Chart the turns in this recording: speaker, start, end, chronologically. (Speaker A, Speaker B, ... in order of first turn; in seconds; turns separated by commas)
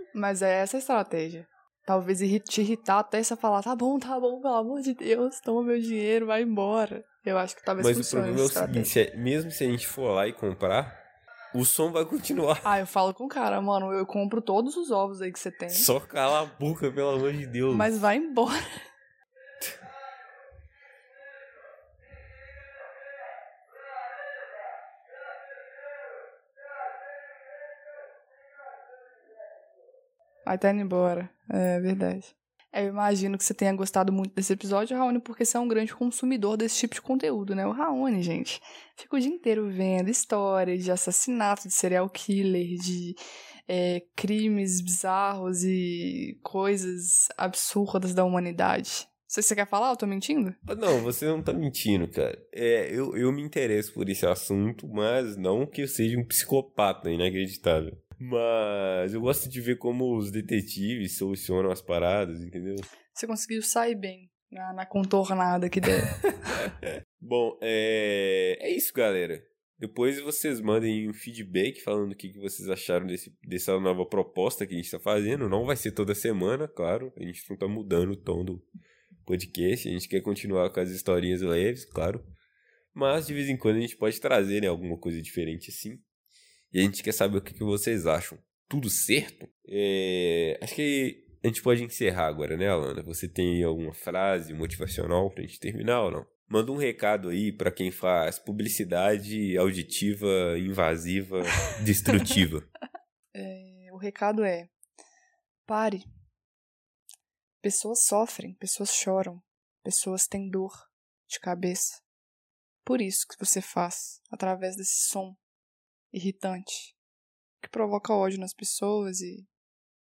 Speaker A: 0.1-8.9, Speaker B: 7.8-11.0, Speaker B: 11.5-12.7, Speaker A: 12.6-15.9, Speaker B: 15.7-17.9, Speaker A: 17.7-18.6, Speaker A: 30.4-43.2, Speaker A: 43.7-50.6, Speaker B: 50.6-62.9, Speaker A: 63.1-66.1, Speaker B: 66.6-78.7, Speaker B: 79.2-82.2, Speaker B: 82.9-86.0, Speaker B: 86.7-102.7, Speaker A: 103.3-104.7, Speaker A: 105.7-106.1, Speaker A: 107.6-112.0, Speaker A: 112.8-115.4, Speaker A: 116.1-116.9, Speaker A: 117.6-119.5